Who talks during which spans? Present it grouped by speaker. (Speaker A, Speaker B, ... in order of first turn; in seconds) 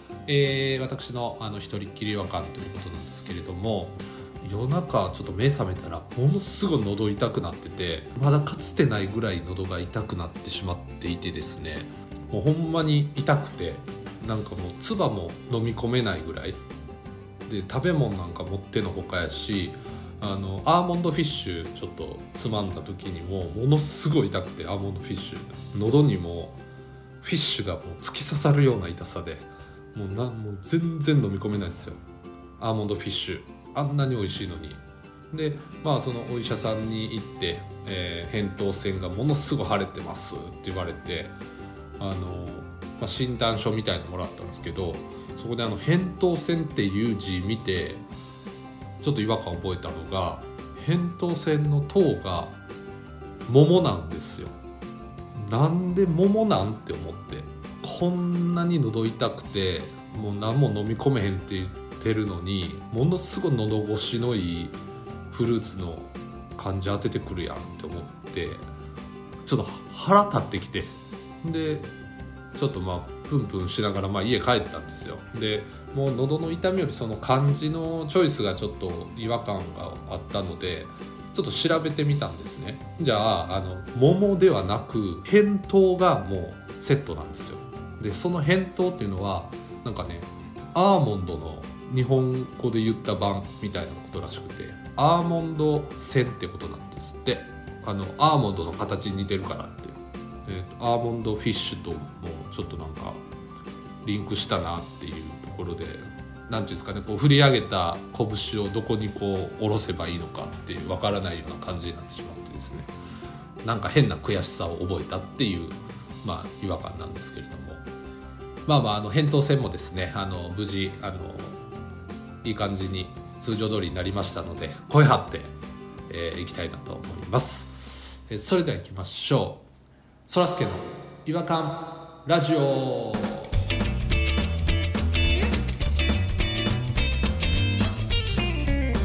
Speaker A: 0.3-16.6, 17.5-26.6, 27.2-32.0, 32.6-41.4, 42.0-48.0, 49.0-52.6, 53.5-54.6, 55.4-64.8, 65.3-68.7, 69.4-71.9, 72.5-103.2, 104.0-112.9, 113.6-117.8, 118.7-121.6, 122.4-125.5, 126.1-129.6, 130.3-133.6